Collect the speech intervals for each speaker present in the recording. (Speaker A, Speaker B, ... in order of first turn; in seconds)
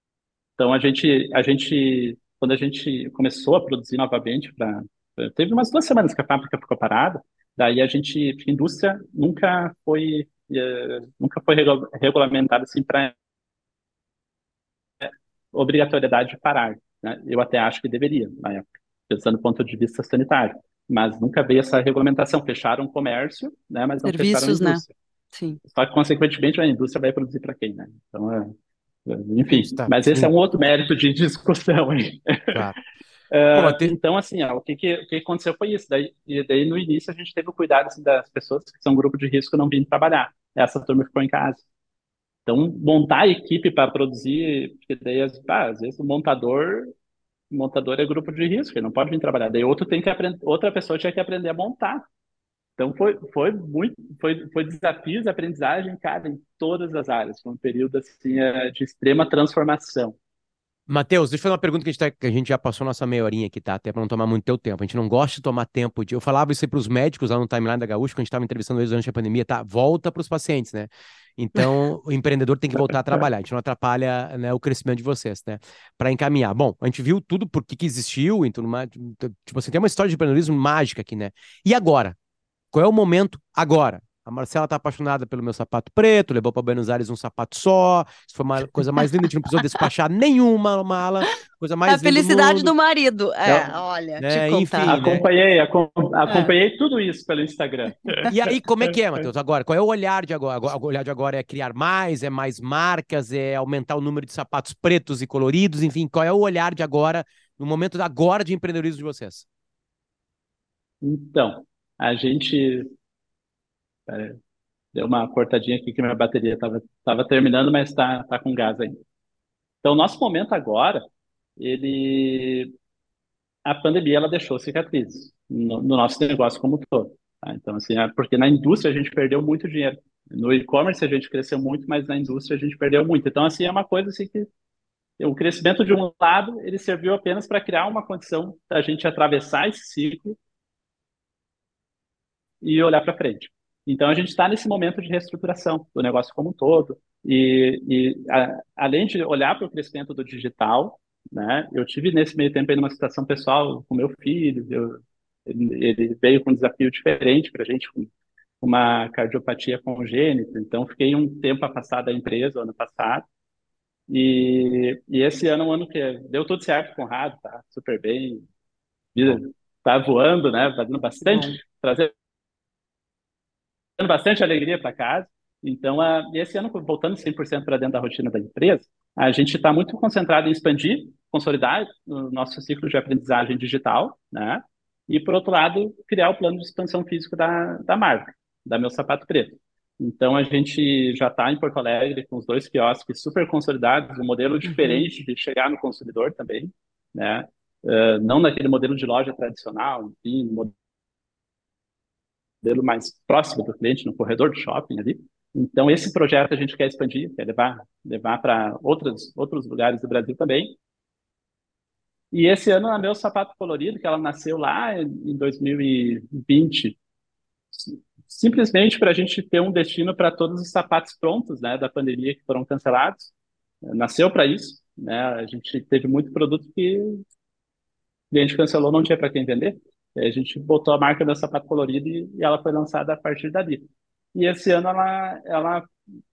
Speaker A: 0.6-13.1, 15.0-24.9, 25.6-28.5, 29.1-32.7, 33.3-41.6, 42.5-46.9, 47.5-52.1, 52.8-60.2, 93.5-93.7, 94.8-99.2, 111.0-112.9, 114.1-114.4, 114.9-119.0, 119.8-121.0, 121.6-122.7, 123.7-134.5, 135.2-140.4, 142.6-163.3, 164.1-168.5, 169.2-172.1, 174.0-200.7, 202.6-210.8, 212.3-217.0, 217.7-223.3, 223.8-227.2, 228.3-235.9
Speaker B: 24.0-25.6, 91.9-95.0, 96.3-96.5, 171.3-171.6, 194.7-195.1
Speaker C: 29.5-30.3, 33.5-34.0, 60.9-82.2, 82.7-92.7, 94.2-95.2, 98.3-109.5